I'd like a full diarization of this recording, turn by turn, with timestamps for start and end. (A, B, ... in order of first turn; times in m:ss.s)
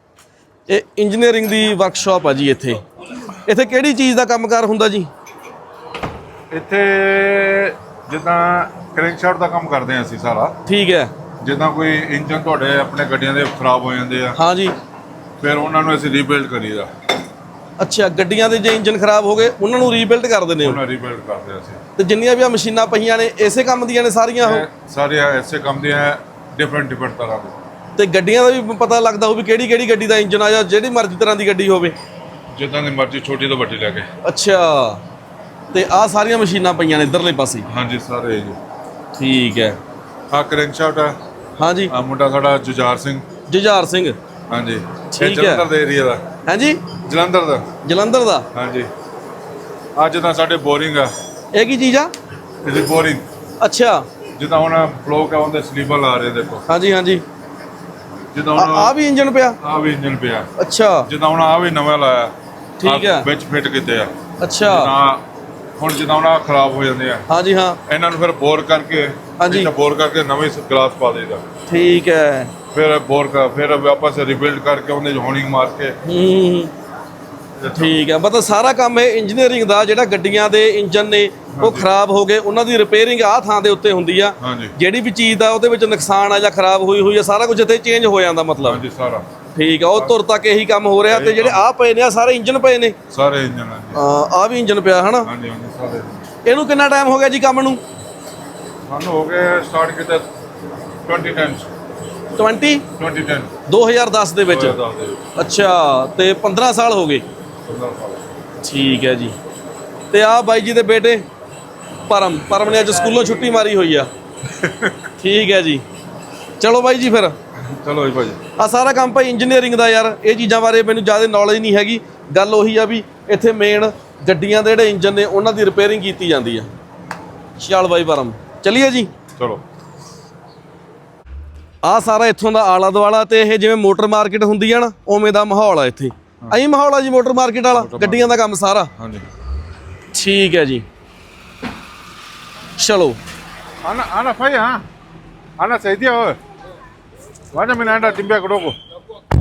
0:00.7-0:02.8 A
0:03.4-0:05.1 A
0:06.5-0:10.6 B
0:10.7-0:11.1 A
0:11.4-0:14.4 B
0:14.4-0:14.8 A
0:15.4-0:16.9 B
0:17.8-0:20.8 A
0:20.6-0:21.8 B
0:22.0-0:24.7 A
0:24.4-0:27.6 B
0:28.0-0:32.0 A
0:32.6-0:34.1 B
0:34.2-0:35.0 A
0:35.7-0:37.7 A
0:37.7-0:38.6 B
0:39.2-0:39.8 A
0:40.3-0:41.2 B
0:41.6-0:41.9 A
0:41.9-0:43.3 B
0:43.5-0:44.2 A
0:44.5-0:46.3 B
0:45.1-0:45.7 A
0:46.5-0:46.9 A
0:47.0-0:47.8 B
0:47.8-0:48.5 A
0:48.5-0:48.9 B
0:50.0-0:51.1 B
0:51.5-0:52.1 A
0:52.6-0:53.2 B
0:53.6-0:54.1 A
0:54.4-0:56.7 B
0:56.7-0:57.2 A
0:58.3-0:59.0 B
0:58.6-0:59.6 A
0:59.6-1:00.5 B
1:00.6-1:01.1 A
1:01.1-1:05.3 B
1:02.8-1:03.3 A
1:04.4-1:04.9 A
1:05.8-1:07.3 B
1:07.3-1:07.8 A
1:07.9-1:11.4 B
1:09.4-1:09.7 A
1:11.7-1:12.5 A
1:12.7-1:16.0 B
1:16.0-1:16.7 A
1:17.6-1:18.0 B
1:17.8-1:28.8 A
1:21.5-1:21.9 B
1:24.4-1:24.8 B
1:28.6-1:29.3 B
1:29.6-1:33.0 A
1:31.1-1:31.6 B
1:33.1-1:34.0 B
1:34.0-1:35.3 A
1:35.2-1:36.3 B
1:36.4-1:37.8 A
1:38.9-1:40.3 B
1:41.0-1:41.7 B
1:42.4-1:42.8 A
1:43.0-1:43.6 B
1:43.7-1:44.8 A
1:44.5-1:45.3 B
1:45.4-1:47.2 A
1:47.6-1:48.2 B
1:48.6-1:49.4 A
1:50.1-1:51.3 A
1:52.1-1:54.1 A
1:54.5-1:55.1 B
1:55.2-1:55.8 A
1:56.6-1:57.4 A
1:57.6-1:58.4 B
1:58.4-2:06.7 A
2:07.6-2:09.1 A
2:09.4-2:09.6 B
2:11.8-2:18.9 A
2:17.7-2:18.4 B
2:19.0-2:19.3 B
2:20.1-2:20.8 A
2:22.8-2:23.2 A
2:23.8-2:24.8 B
2:25.6-2:26.4 B
2:27.5-2:28.8 B